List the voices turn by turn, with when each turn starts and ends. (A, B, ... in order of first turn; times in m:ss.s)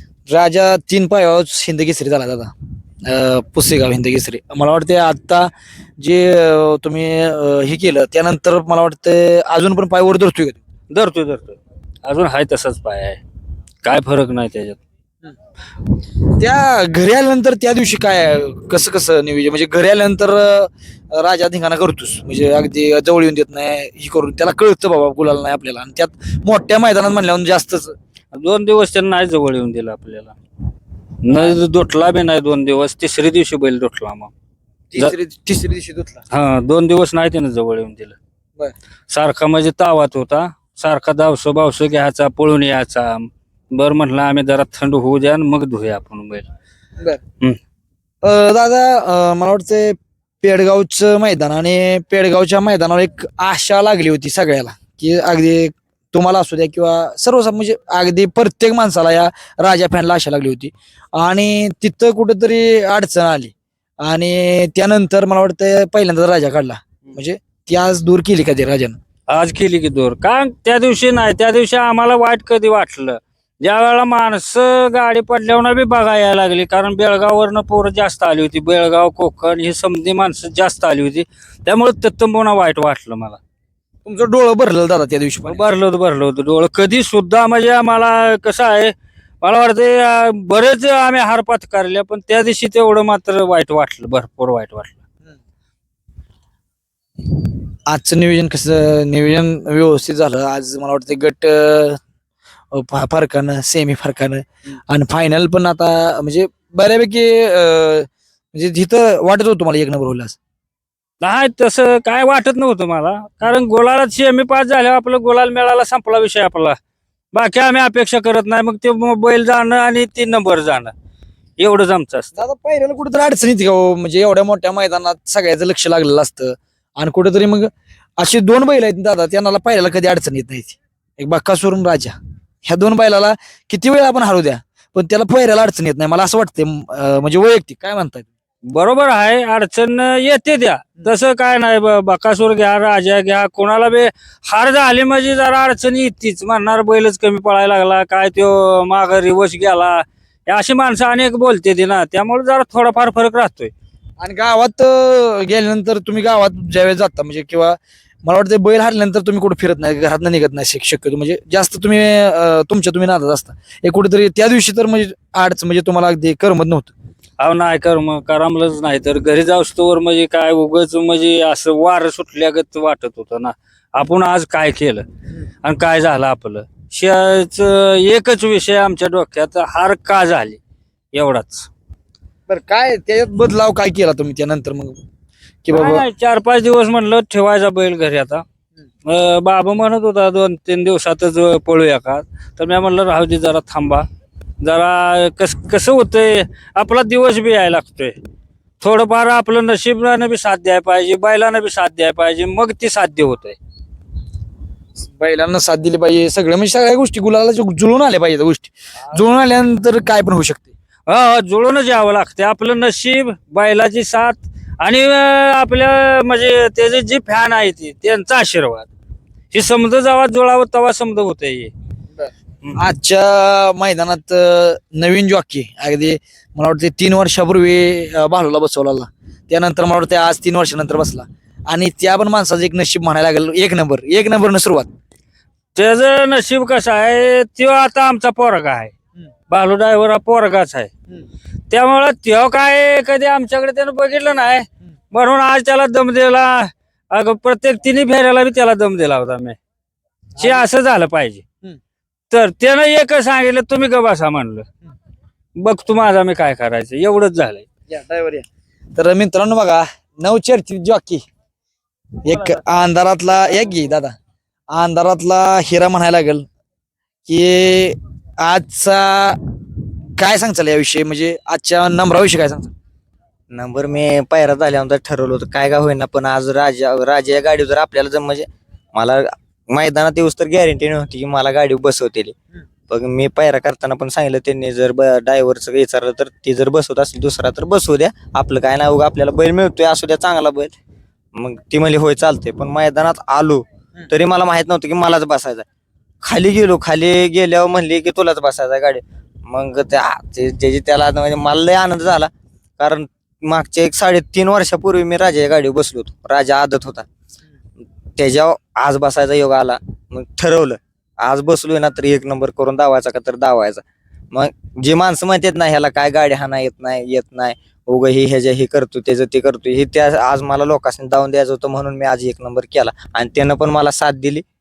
0:00.3-0:02.5 A
0:03.0-0:10.6 A
0:10.9-0:13.2 B
0:13.8-0:14.8 B
0:16.4-0:28.0 A
0:28.3-0:30.4 B
0:31.2-0:34.3 B
0:31.3-0:31.6 A
0:34.9-0:36.2 A
0:36.3-0:38.2 B
0:39.1-0:46.5 B
0:48.2-1:09.0 A
1:09.3-1:23.4 B
1:24.0-1:25.6 A
1:25.5-1:35.0 B
1:37.9-1:42.0 A
1:42.7-1:50.4 A
1:51.2-1:56.8 B
1:57.3-2:00.9 B
2:01.6-2:02.3 B
2:02.4-2:18.3 A
2:18.7-2:33.7 B
2:34.2-2:46.9 A
2:47.4-2:55.1 B
2:55.6-3:00.6 B
3:01.1-3:01.7 B
3:02.5-3:05.0 A
3:05.6-3:06.1 A
3:05.7-3:08.4 B
3:09.0-3:14.1 B
3:14.6-3:18.2 B
3:18.8-3:23.6 B
3:25.1-3:30.7 A
3:31.1-3:38.9 B
3:39.5-3:41.7 B
3:42.8-3:54.9 A
3:55.8-3:58.9 B
3:59.5-4:00.9 B
4:01.7-4:09.6 B
4:10.4-4:11.4 B
4:12.3-4:14.7 B
4:15.6-4:17.7 B
4:17.9-4:21.2 A
4:22.2-4:24.2 A
4:24.7-4:26.4 A
4:27.3-4:29.4 A
4:30.2-4:32.7 A
4:33.5-4:42.4 C
4:42.9-4:50.7 C
4:51.3-4:55.7 C
4:56.2-5:07.1 C
5:08.2-5:24.4 C